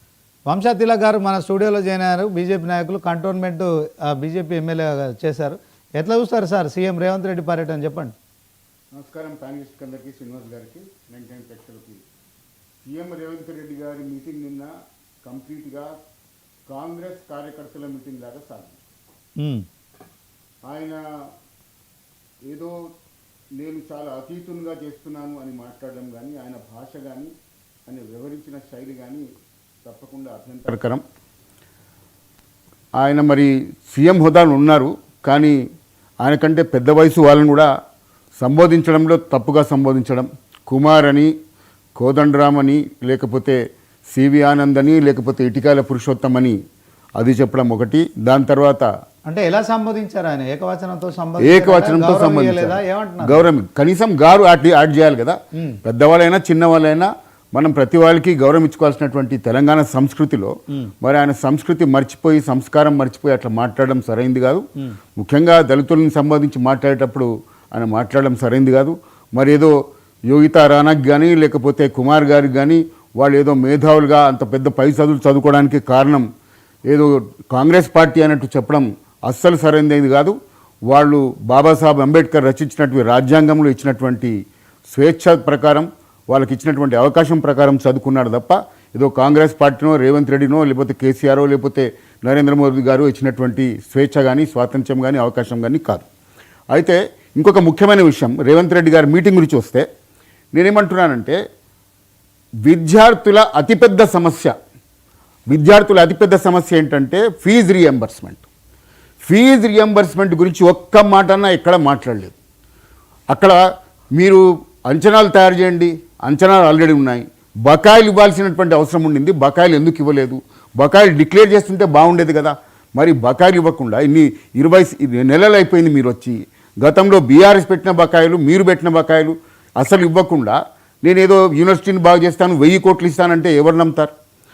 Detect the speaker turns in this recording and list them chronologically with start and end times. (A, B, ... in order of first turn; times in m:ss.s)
0:00.5-0:08.1 A
0:08.9-0:12.0 B
0:12.8-0:14.7 B
0:15.2-0:15.9 B
0:16.7-0:18.8 B
0:19.4-0:19.6 A
0:20.7-0:21.0 B
0:22.5-0:22.8 B
0:23.6-0:27.3 B
0:27.9-0:29.2 B
0:29.8-0:31.0 B
0:33.0-0:35.6 B
0:36.2-0:37.7 B
0:38.4-0:41.3 B
0:42.0-0:43.6 B
0:44.1-0:46.6 B
0:47.2-0:48.9 B
0:49.2-0:53.4 A
0:51.4-1:04.6 B
1:05.2-1:09.7 B
1:10.3-1:16.2 B
1:16.9-1:20.4 B
1:20.9-1:24.4 B
1:24.9-1:36.0 B
1:36.7-1:39.8 B
1:40.5-1:41.4 B
1:42.6-1:44.5 B
1:45.5-1:48.4 B
1:49.2-1:52.3 B
1:53.3-1:53.6 B
1:54.2-2:14.1 B